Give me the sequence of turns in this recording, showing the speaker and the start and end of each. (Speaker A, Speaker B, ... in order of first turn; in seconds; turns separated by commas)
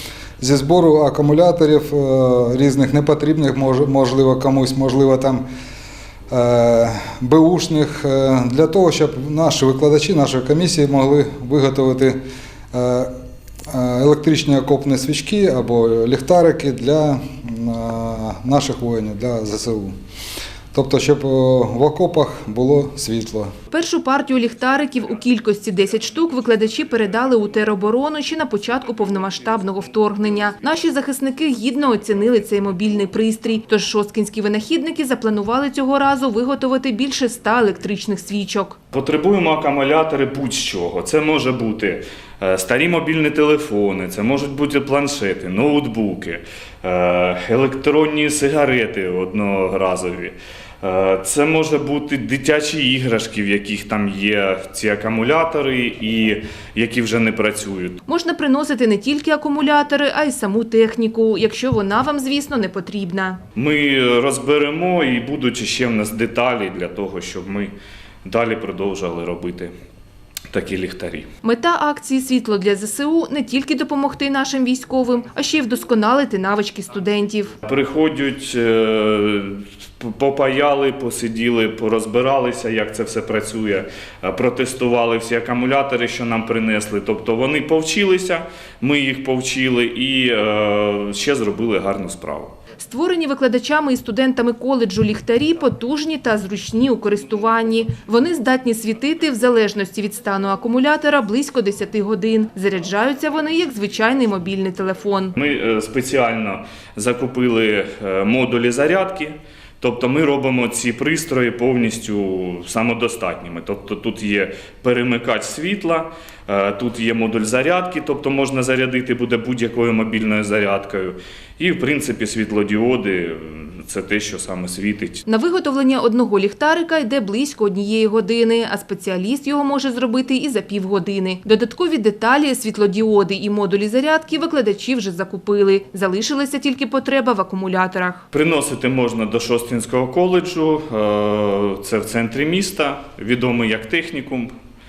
Speaker A: 0.4-5.4, Speaker A: 6.3-12.2, Speaker A: 12.7-13.1, Speaker A: 13.7-19.9, Speaker A: 20.7-23.5, Speaker B: 23.7-38.8, Speaker C: 38.9-58.0, Speaker B: 58.1-63.4, Speaker C: 63.5-67.7, Speaker C: 68.2-69.7, Speaker C: 70.5-71.3, Speaker B: 71.4-77.5, Speaker C: 77.6-92.5, Speaker B: 92.8-105.3, Speaker C: 105.3-125.2, Speaker B: 125.2-138.2, Speaker C: 138.3-144.5